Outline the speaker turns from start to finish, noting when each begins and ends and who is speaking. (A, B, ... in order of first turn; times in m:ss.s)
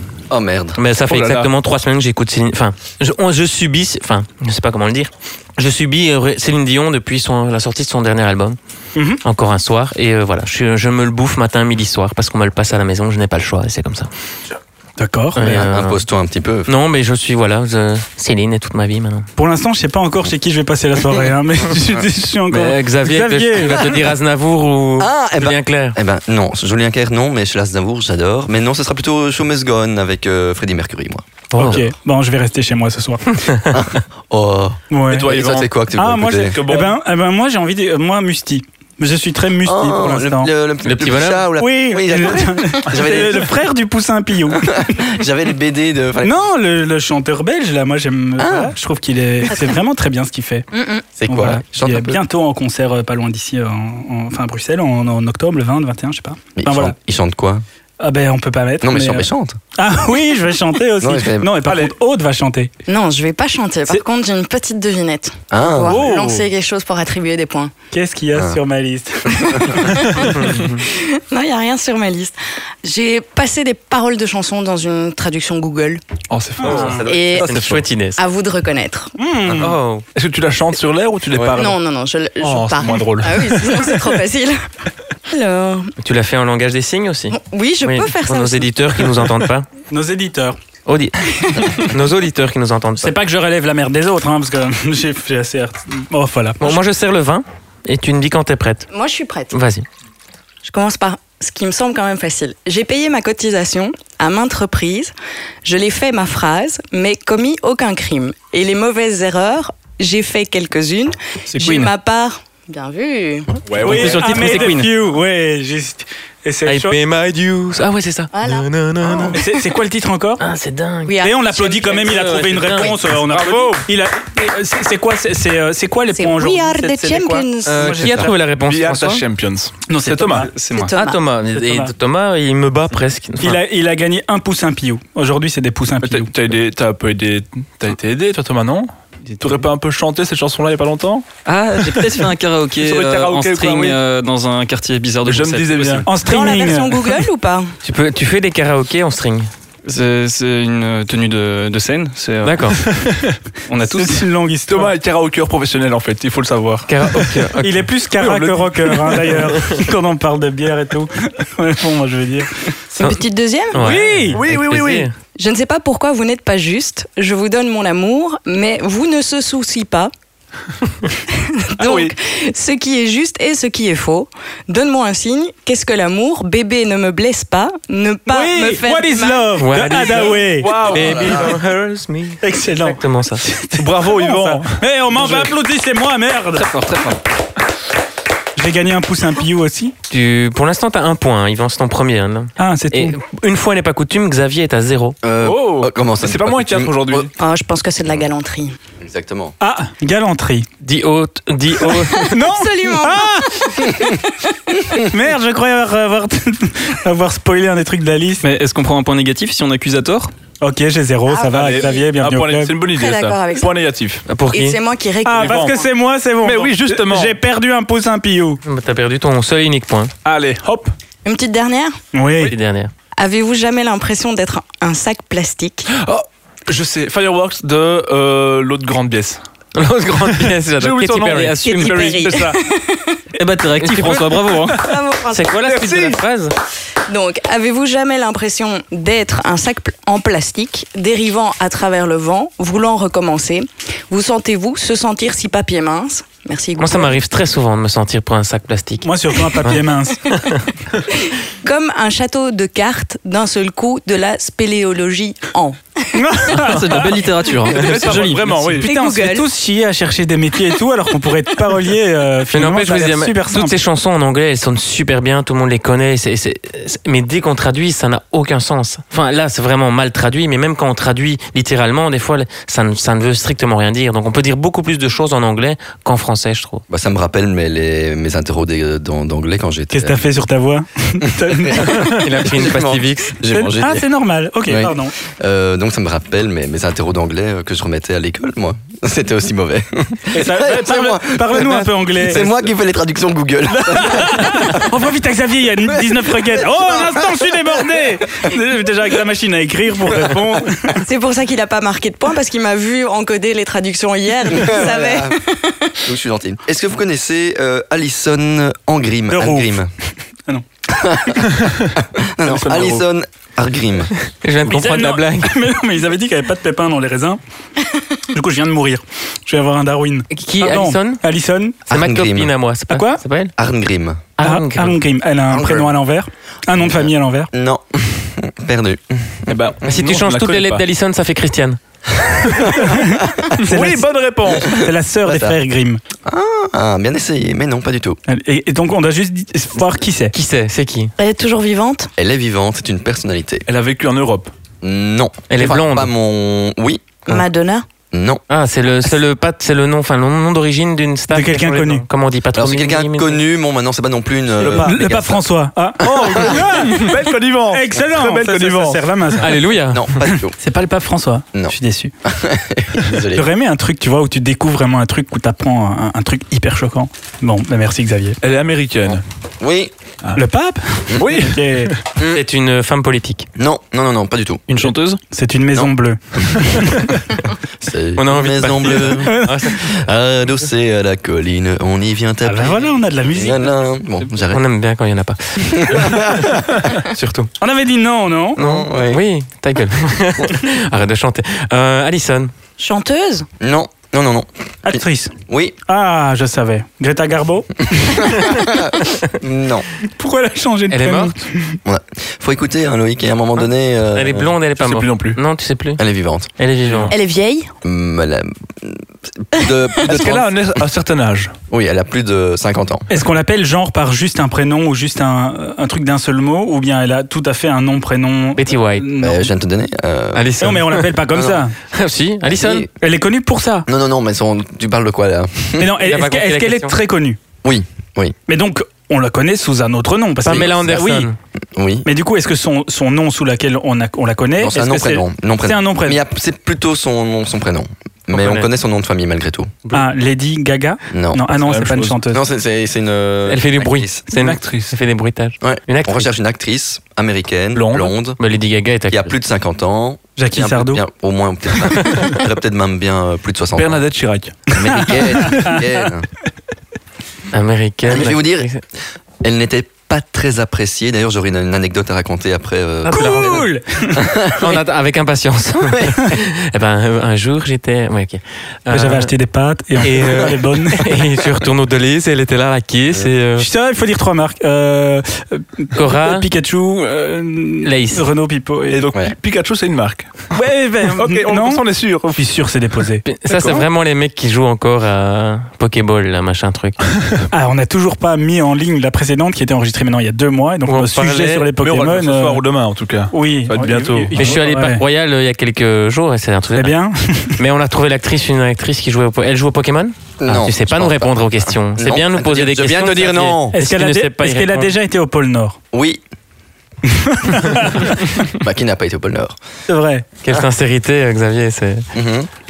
0:00.3-0:00.8 A
0:00.8-0:08.6 B
0:01.1-0:01.5 C
0:09.2-0:14.1 B
0:15.0-0:15.4 D
0:15.3-0:16.0 B
0:15.4-0:16.7 A
0:16.6-0:19.3 B
0:19.4-0:23.9 D
0:22.5-0:26.0 B
0:25.0-0:31.8 A
0:31.5-0:33.4 D
0:33.7-0:36.6 A
0:34.9-0:35.3 D
0:35.1-0:35.7 C
0:36.0-0:40.5 D
0:36.4-0:37.0 C
0:39.6-0:43.5 A
0:40.8-0:41.5 B
0:41.6-0:45.0 D
0:44.5-0:46.4 A
0:46.2-0:50.7 D
0:48.4-0:48.7 A
0:49.5-0:49.7 E
0:50.7-0:51.0 E
0:51.2-0:52.2 A
0:51.3-0:57.0 D
0:56.6-0:57.6 A
0:58.0-1:02.7 D
0:58.8-0:59.6 A
1:01.0-1:01.5 A
1:01.7-1:01.9 C
1:02.9-1:07.7 E
1:05.5-1:06.0 A
1:05.8-1:06.5 D
1:07.9-1:10.5 D
1:08.3-1:08.6 A
1:09.3-1:16.0 E
1:16.3-1:17.8 C
1:16.6-1:17.0 D
1:16.6-1:18.2 B
1:17.0-1:17.6 E
1:18.2-1:19.1 E
1:19.2-1:19.7 D
1:19.6-1:20.0 B
1:19.6-1:21.8 C
1:21.3-1:21.6 A
1:21.5-1:24.6 E
1:22.4-1:24.0 C
1:25.3-1:25.9 E
1:26.0-1:29.7 B
1:27.3-1:28.9 E
1:29.9-1:30.6 D
1:30.8-1:33.1 B
1:33.0-1:36.8 D
1:36.6-1:38.9 B
1:38.9-1:39.6 E
1:39.5-1:39.8 B
1:40.6-1:45.1 E
1:45.6-1:53.6 E
1:51.6-1:51.9 F
1:53.6-1:54.8 C
1:53.8-1:57.0 D
1:53.8-1:54.9 B
1:56.6-1:59.4 B
1:58.3-1:59.4 E
1:59.3-2:00.4 D
2:00.4-2:01.2 B
2:01.0-2:02.9 E
2:01.2-2:08.3 D
2:02.0-2:03.0 B
2:03.1-2:03.9 C
2:06.1-2:08.1 E
2:07.6-2:09.2 B
2:08.1-2:10.5 C
2:09.9-2:10.9 D
2:10.7-2:11.2 E
2:10.9-2:13.6 B
2:11.5-2:11.9 D
2:13.4-2:16.3 D
2:16.0-2:21.3 C
2:21.4-2:26.1 F
2:22.8-2:24.0 C
2:25.2-2:26.1 C
2:26.0-2:27.0 D
2:26.2-2:27.7 E
2:27.8-2:29.5 B
2:29.8-2:32.6 F
2:32.4-2:32.8 B
2:32.8-2:33.4 C
2:33.7-2:34.2 F
2:33.9-2:34.9 D
2:34.7-2:37.5 C
2:36.9-2:37.8 B
2:37.6-2:42.5 D
2:38.2-2:39.5 C
2:43.0-2:44.0 E
2:43.7-2:45.1 B
2:43.8-2:44.4 D
2:44.2-2:45.1 C
2:45.3-2:50.1 E
2:51.3-2:59.6 E
2:51.8-2:52.1 C
2:58.3-3:00.8 D
2:59.6-3:03.4 B
3:00.0-3:01.6 C
3:00.9-3:01.5 A
3:02.4-3:06.7 D
3:03.8-3:05.5 C
3:06.6-3:07.1 F
3:06.8-3:07.1 C
3:08.6-3:09.9 D
3:10.1-3:15.2 B
3:12.6-3:13.2 D
3:15.2-3:17.3 A
3:15.4-3:17.3 C
3:17.4-3:18.8 E
3:19.0-3:19.5 A
3:19.6-3:20.7 D
3:20.8-3:22.3 B
3:21.8-3:24.2 E
3:22.2-3:23.9 D
3:25.0-3:28.5 D
3:28.4-3:30.3 F
3:30.6-3:32.7 D
3:31.3-3:32.1 E
3:31.5-3:34.2 C
3:32.9-3:33.7 E
3:34.3-3:34.8 B
3:34.5-3:35.7 E
3:35.2-3:38.6 D
3:35.3-3:35.8 C
3:36.4-3:37.4 C
3:38.6-3:40.1 B
3:40.2-3:40.9 C
3:41.2-3:42.0 E
3:42.1-3:42.5 D
3:42.4-3:42.9 B
3:43.2-3:45.9 E
3:45.9-3:49.4 C
3:49.8-3:52.2 B
3:50.4-3:52.6 C
3:51.6-3:53.2 E
3:53.3-3:54.9 F
3:53.8-3:54.4 B
3:54.7-3:55.6 E
3:55.3-3:56.5 B
3:55.6-3:56.2 C
3:57.1-4:07.2 E
4:06.8-4:09.0 B
4:09.0-4:10.2 D
4:11.1-4:16.1 E
4:16.1-4:17.1 D
4:16.6-4:18.8 F
4:17.7-4:18.9 C
4:18.8-4:23.7 D
4:18.8-4:19.5 E
4:22.5-4:36.8 B
4:36.9-4:40.2 A
4:39.9-4:42.1 D
4:41.4-4:44.0 A
4:42.0-4:43.4 B
4:43.5-4:45.1 D
4:44.7-4:54.8 A
4:50.3-4:52.5 D
4:53.7-5:01.0 D
4:55.9-4:57.7 A
5:01.0-5:06.0 E
5:04.5-5:05.4 A
5:06.0-5:09.9 A
5:09.3-5:09.8 D
5:10.9-5:14.1 A
5:12.5-5:13.0 C
5:14.4-5:15.6 B
5:14.6-5:17.4 D
5:18.3-5:21.8 D
5:20.3-5:21.2 B
5:21.9-5:22.5 A
5:21.9-5:23.5 B
5:22.9-5:23.2 D
5:23.6-5:24.2 A
5:24.4-5:25.0 B
5:24.4-5:27.5 D
5:25.5-5:25.9 A
5:26.8-5:29.7 A
5:29.5-5:30.8 C
5:29.8-5:31.8 B
5:32.3-5:33.5 A
5:32.8-5:36.0 D
5:33.6-5:34.8 C
5:35.2-5:35.6 A
5:36.2-5:38.2 A
5:38.3-5:40.3 D
5:40.3-5:41.1 B
5:41.2-5:42.1 E
5:42.2-5:43.6 A
5:43.7-5:44.5 C
5:44.8-5:47.4 A
5:45.5-5:46.1 B
5:47.3-5:47.8 E
5:48.1-5:48.4 A
5:48.5-5:53.4 B
5:51.3-5:52.0 D
5:52.5-5:55.4 A
5:54.6-5:57.1 D
5:54.6-5:54.9 C
5:56.0-5:56.4 A
5:56.0-5:59.0 C
5:57.7-5:59.6 D
5:59.4-6:00.1 B
5:59.9-6:00.5 A
6:00.2-6:02.1 D
6:01.5-6:03.5 A
6:03.3-6:08.4 D
6:08.4-6:09.2 C
6:09.6-6:09.9 A
6:10.4-6:11.9 D
6:11.2-6:12.0 C
6:12.2-6:12.4 A
6:12.3-6:13.5 B
6:13.6-6:14.6 A
6:14.7-6:15.2 F
6:15.3-6:17.1 D
6:17.8-6:24.6 A
6:18.2-6:20.0 B
6:19.2-6:19.6 D
6:22.4-6:23.7 D
6:24.5-6:27.5 B
6:25.7-6:26.7 A
6:27.6-6:28.6 D
6:28.6-6:29.2 A
6:28.6-6:32.5 B
6:32.8-6:33.5 E
6:33.6-6:35.8 A
6:34.8-6:35.3 D
6:35.9-6:38.6 D
6:38.3-6:39.9 A
6:40.1-6:41.8 D
6:40.9-6:41.4 B
6:41.8-6:44.5 A
6:44.1-6:46.0 B
6:44.8-6:45.4 C
6:46.0-6:46.5 A
6:46.6-6:47.1 B
6:47.1-6:47.7 E
6:47.8-6:50.5 A
6:50.0-6:51.5 C
6:51.7-6:53.1 A
6:53.1-6:59.5 D
6:58.6-6:59.0 B
6:59.2-7:00.5 A
7:00.3-7:01.1 B
7:00.6-7:01.7 D
7:01.3-7:01.6 A
7:01.9-7:02.9 B
7:02.4-7:02.9 A
7:03.0-7:03.9 D
7:03.9-7:05.9 A
7:05.8-7:07.4 D
7:06.0-7:07.0 B
7:07.6-7:08.4 A
7:08.5-7:11.3 D
7:10.4-7:11.4 B
7:10.4-7:11.1 A
7:11.8-7:12.1 A
7:12.0-7:16.2 D
7:14.6-7:19.8 A
7:18.3-7:18.7 B
7:19.9-7:22.4 D
7:21.1-7:21.4 A
7:21.5-7:22.2 C
7:22.3-7:24.2 A
7:23.5-7:26.3 B
7:24.3-7:24.9 C
7:25.6-7:28.4 A
7:27.7-7:28.1 C
7:28.4-7:29.3 B
7:29.1-7:34.0 A
7:30.4-7:31.0 D
7:33.7-7:34.7 C
7:34.7-7:36.3 A
7:35.0-7:35.8 D
7:37.5-7:38.8 B
7:38.0-7:38.7 A
7:39.4-7:43.6 A
7:43.0-7:43.8 B
7:43.1-7:44.2 D
7:44.2-7:44.8 A
7:44.5-7:49.3 B
7:45.8-7:46.4 A
7:48.9-7:51.2 D
7:50.0-7:53.6 B
7:53.6-7:59.0 D
7:55.9-7:56.4 B
7:57.8-7:58.3 B
7:58.9-8:00.3 C
8:00.5-8:03.2 D
8:01.1-8:02.4 C
8:03.2-8:07.0 B
8:03.5-8:03.8 C
8:07.5-8:12.6 D
8:10.8-8:11.7 B
8:11.7-8:14.6 C
8:13.3-8:15.0 D
8:14.4-8:17.0 B
8:16.7-8:17.6 D
8:17.6-8:24.9 B
8:20.4-8:23.7 A
8:23.7-8:25.8 D
8:25.9-8:26.2 A
8:27.1-8:28.3 D
8:28.5-8:29.6 A
8:29.9-8:30.2 D
8:30.4-8:32.0 B
8:32.1-8:32.5 A